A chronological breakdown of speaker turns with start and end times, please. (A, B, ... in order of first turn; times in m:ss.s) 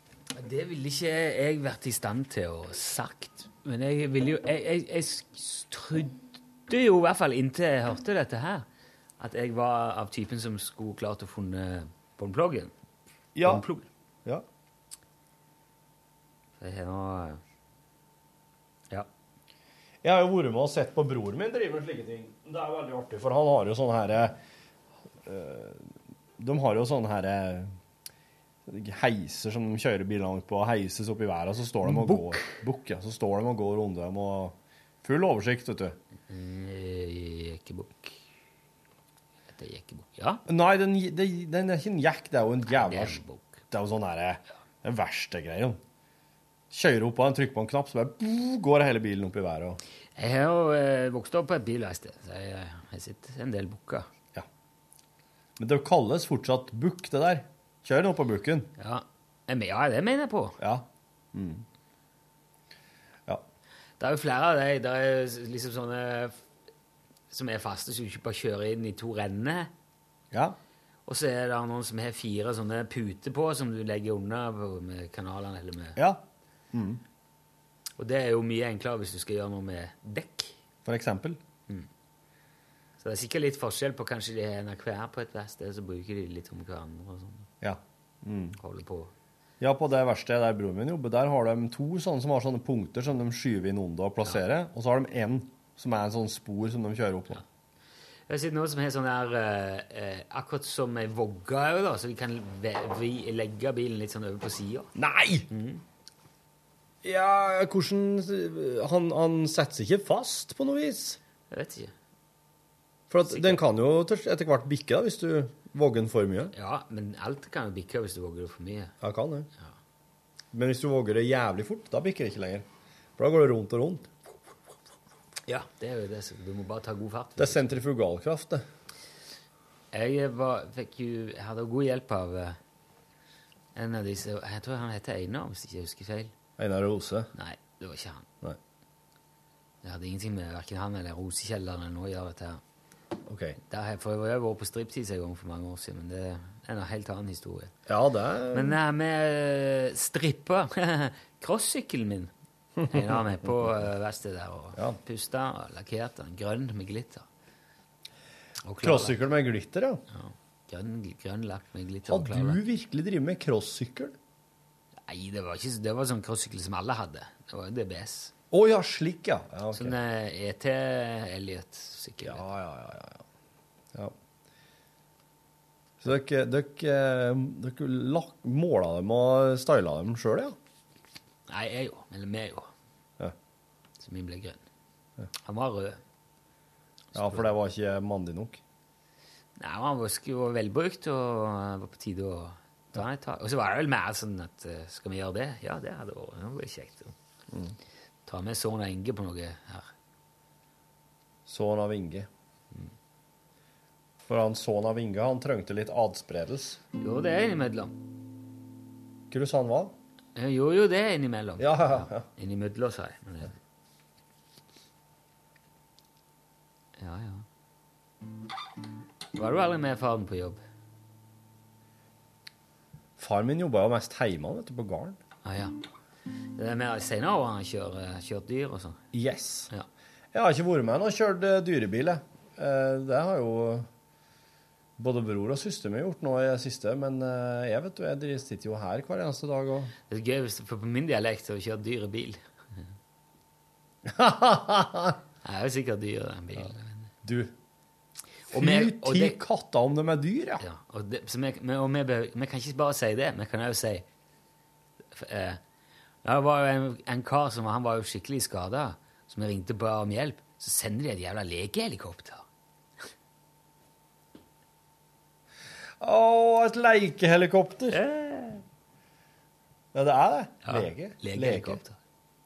0:00.3-0:08.6 A
0:09.2-0:12.7 A
0:13.3-0:13.6 B
0:13.4-0:13.9 A
0:16.6-0:17.4 A
0:20.0-0:24.4 B
0:25.2-0:27.8 B
0:28.6-0:36.0 B
0:31.9-0:32.2 A
0:36.3-0:38.2 A
0:39.5-0:40.4 A
0:40.5-0:45.8 B
0:42.7-0:43.6 A
0:46.7-0:49.8 B
0:50.2-0:54.1 A
0:55.6-0:58.7 B
0:58.8-1:00.6 A
1:00.6-1:01.6 B
1:04.0-1:06.3 A
1:07.3-1:09.7 A
1:10.3-1:10.6 B
1:11.0-1:16.0 A
1:16.0-1:17.0 B
1:18.0-1:20.6 A
1:20.8-1:21.4 B
1:23.0-1:27.5 A
1:27.6-1:28.6 B
1:28.6-1:29.1 A
1:29.6-1:37.4 B
1:38.3-1:44.9 A
1:44.9-1:45.5 B
1:45.5-1:45.8 A
1:47.0-1:51.2 B
1:51.5-1:51.9 A
1:53.1-1:56.5 B
1:53.3-1:53.6 A
1:56.5-1:58.9 A
1:59.0-1:59.5 B
2:00.5-2:02.6 B
2:03.2-2:04.1 B
2:05.5-2:07.8 A
2:07.4-2:08.6 B
2:09.9-2:12.6 A
2:13.7-2:16.3 A
2:16.6-2:17.3 B
2:17.3-2:18.3 A
2:19.8-2:22.6 A
2:23.2-2:23.6 B
2:23.7-2:27.7 A
2:27.9-2:28.8 B
2:28.5-2:32.3 A
2:32.8-2:33.4 B
2:32.9-2:37.2 A
2:38.6-2:39.2 A
2:38.8-2:40.0 B
2:40.1-2:42.6 A
2:42.1-2:44.2 B
2:45.1-2:48.3 A
2:48.5-2:50.0 B
2:49.7-2:52.4 A
2:52.2-2:53.2 B
2:56.0-3:00.6 B
3:01.5-3:02.7 A
3:04.0-3:04.6 A
3:05.4-3:06.0 A
3:07.1-3:07.5 A
3:07.1-3:08.6 B
3:09.6-3:17.1 A
3:17.5-3:17.8 B
3:18.2-3:19.9 A
3:21.4-3:22.3 B
3:24.3-3:26.8 B
3:27.0-3:28.0 A
3:29.3-3:29.9 B
3:30.4-3:33.5 A
3:31.6-3:32.2 B
3:37.0-3:37.4 A
3:39.3-3:40.6 A
3:43.2-3:45.2 B
3:45.4-3:45.8 A
3:46.6-3:49.0 A
3:49.1-3:49.7 B
3:50.3-3:53.9 B
3:55.0-3:59.9 B
4:00.1-4:02.8 A
4:04.0-4:05.2 B
4:05.4-4:07.1 A
4:07.2-4:07.5 B
4:08.5-4:09.4 A
4:08.5-4:10.6 B
4:10.6-4:14.0 A
4:15.1-4:15.6 A
4:16.2-4:22.4 A
4:26.0-4:28.0 B
4:27.9-4:28.6 A
4:29.9-4:31.8 B
4:30.6-4:32.0 A